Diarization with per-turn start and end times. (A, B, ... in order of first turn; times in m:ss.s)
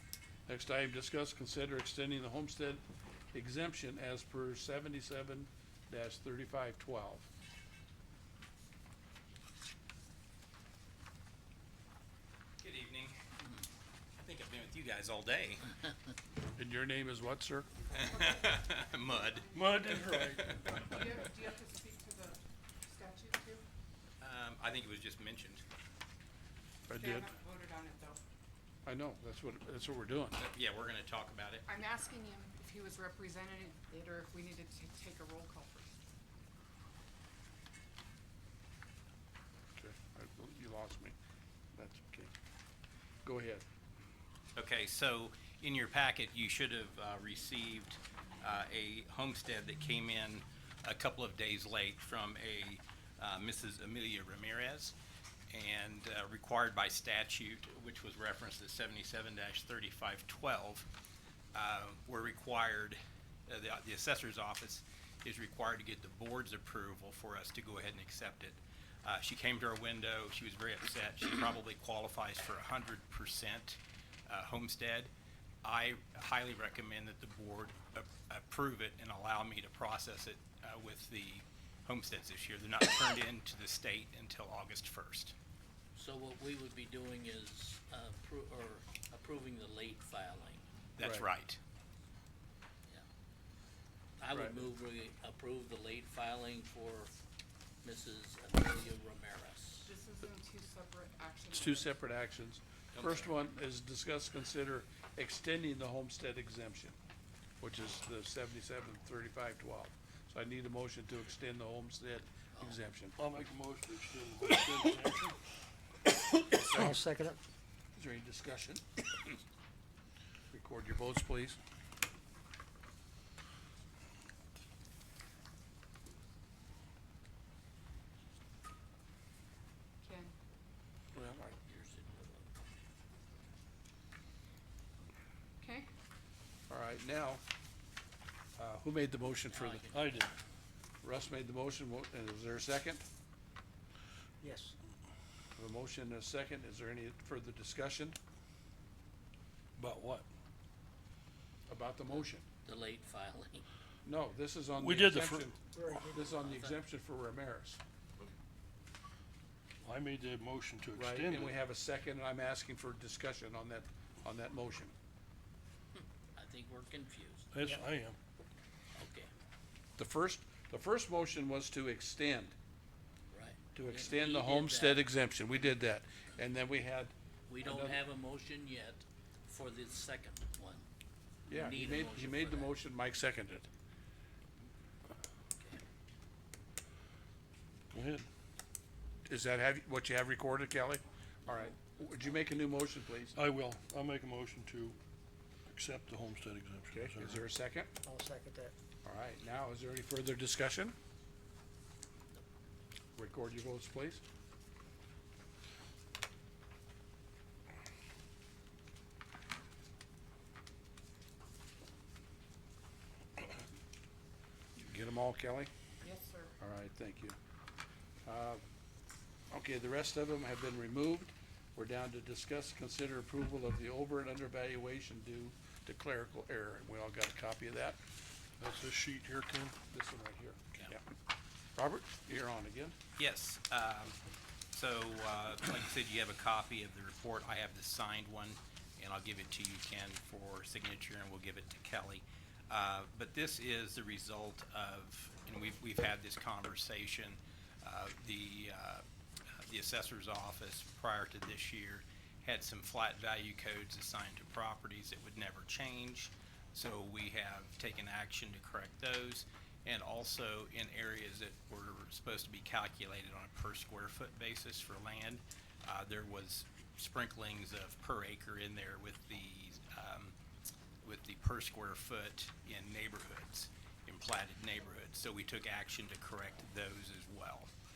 0:00.5-0:02.8 A
0:03.3-0:07.3 A
0:12.6-0:13.2 B
0:14.2-0:15.8 B
0:16.6-0:17.7 A
0:17.9-0:21.0 B
0:17.9-0:20.1 C
0:19.5-0:20.8 D
0:20.8-0:23.6 C
0:24.2-0:25.6 B
0:26.9-0:27.3 A
0:27.0-0:28.2 C
0:28.8-0:30.4 A
0:30.4-0:31.7 B
0:31.7-0:36.0 C
0:39.8-0:41.1 A
0:41.7-0:42.3 A
0:43.2-0:43.6 A
0:44.5-0:54.9 B
0:55.5-1:00.9 B
1:01.5-1:15.1 B
1:15.6-1:25.3 B
1:26.0-1:30.6 E
1:31.0-1:31.6 B
1:31.0-1:31.3 A
1:34.2-1:37.1 E
1:34.3-1:34.6 A
1:37.8-1:39.9 E
1:39.8-1:41.9 C
1:41.5-1:47.0 A
1:47.6-1:53.3 A
1:52.5-1:52.8 E
1:53.2-1:55.4 D
1:56.5-1:57.0 A
1:56.8-1:57.4 F
1:57.9-1:59.3 A
2:00.5-2:01.6 A
2:10.0-2:10.3 C
2:11.1-2:11.5 A
2:11.6-2:12.8 E
2:15.6-2:15.9 C
2:16.7-2:17.4 A
2:18.6-2:19.8 A
2:19.5-2:20.3 E
2:19.9-2:20.3 D
2:21.0-2:23.0 A
2:24.4-2:24.7 F
2:25.6-2:28.2 A
2:29.8-2:30.2 D
2:31.7-2:32.4 A
2:32.6-2:33.6 E
2:34.0-2:37.8 A
2:34.8-2:35.5 D
2:35.7-2:36.4 F
2:39.8-2:41.6 D
2:41.0-2:44.9 A
2:46.0-2:47.5 E
2:47.5-2:48.2 D
2:48.9-2:49.3 E
2:50.0-2:52.5 A
2:53.3-2:55.1 E
2:53.7-2:58.0 A
2:57.5-3:00.8 E
3:01.5-3:03.7 A
3:01.5-3:02.8 E
3:07.9-3:08.3 D
3:09.2-3:13.3 A
3:11.5-3:12.4 E
3:13.3-3:15.0 D
3:15.7-3:17.4 D
3:16.9-3:17.9 A
3:18.0-3:18.7 F
3:19.0-3:20.9 A
3:23.2-3:24.2 A
3:34.8-3:35.7 A
3:36.0-3:36.6 C
3:36.6-3:37.4 A
3:38.2-3:38.6 A
3:39.5-3:48.0 A
3:48.6-3:49.8 D
3:49.9-3:51.0 A
3:51.8-3:52.9 A
3:53.2-3:54.2 B
3:54.7-4:09.0 B
4:09.6-4:30.3 B
4:31.0-4:37.7 B